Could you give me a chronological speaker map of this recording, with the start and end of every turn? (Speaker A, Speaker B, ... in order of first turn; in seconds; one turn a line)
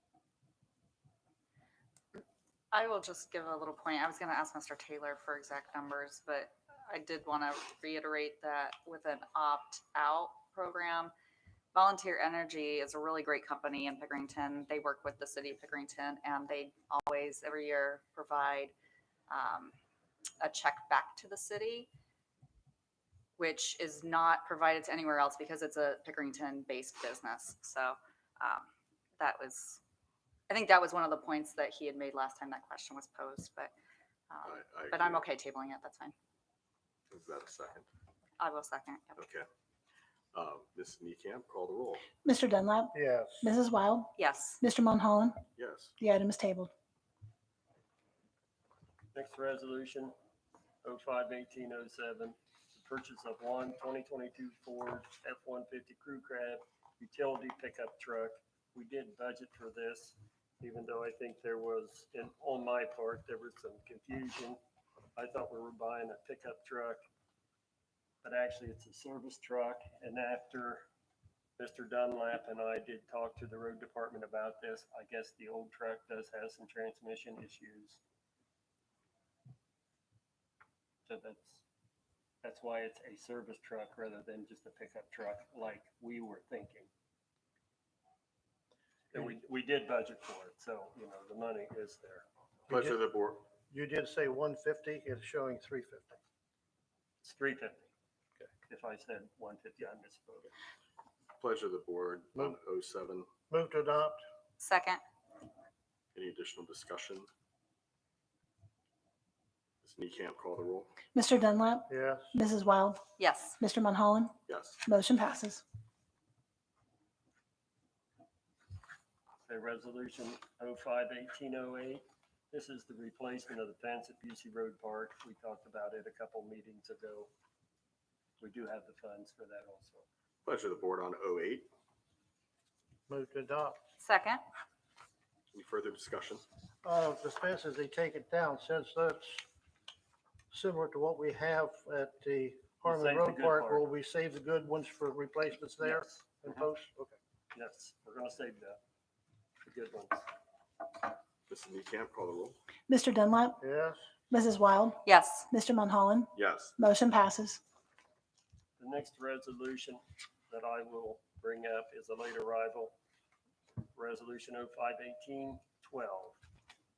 Speaker A: 2.7-11.1
Speaker A: 11.7-18.7
Speaker A: 19.3-19.7
Speaker A: 20.4-21.9
Speaker A: 23.4-29.8
Speaker A: 30.5-33.7
Speaker A: 34.3-36.1
Speaker B: 34.4-35.2
Speaker B: 37.1-37.9
Speaker A: 38.4-39.3
Speaker B: 39.2-39.5
Speaker B: 40.3-42.1
Speaker C: 42.2-45.4
Speaker D: 42.9-43.5
Speaker A: 44.2-44.6
Speaker B: 45.5-45.9
Speaker C: 46.0-46.7
Speaker E: 49.1-50.1
Speaker E: 50.8-64.6
Speaker E: 65.2-67.0
Speaker E: 68.2-70.9
Speaker E: 71.6-78.0
Speaker E: 81.0-81.6
Speaker E: 82.4-86.9
Speaker E: 89.1-92.2
Speaker D: 92.7-93.0
Speaker B: 92.7-93.5
Speaker D: 93.6-96.2
Speaker E: 97.2-97.9
Speaker E: 98.7-100.5
Speaker B: 101.4-103.3
Speaker D: 103.5-104.2
Speaker A: 104.6-105.0
Speaker B: 106.1-107.3
Speaker B: 109.8-110.9
Speaker C: 111.1-113.0
Speaker D: 111.9-112.3
Speaker A: 113.2-113.6
Speaker C: 113.6-115.6
Speaker B: 114.5-114.8
Speaker E: 119.5-127.3
Speaker E: 128.4-130.1
Speaker B: 130.4-131.7
Speaker D: 133.1-133.8
Speaker A: 134.0-134.4
Speaker B: 135.5-136.4
Speaker D: 136.8-139.5
Speaker D: 140.5-147.2
Speaker E: 142.8-143.9
Speaker E: 145.8-146.5
Speaker E: 147.5-148.8
Speaker E: 149.6-150.3
Speaker B: 151.5-152.6
Speaker C: 152.9-153.6
Speaker D: 153.6-154.0
Speaker C: 154.3-157.6
Speaker A: 155.1-155.5
Speaker B: 156.3-156.8
Speaker E: 158.8-163.0
Speaker E: 163.9-166.4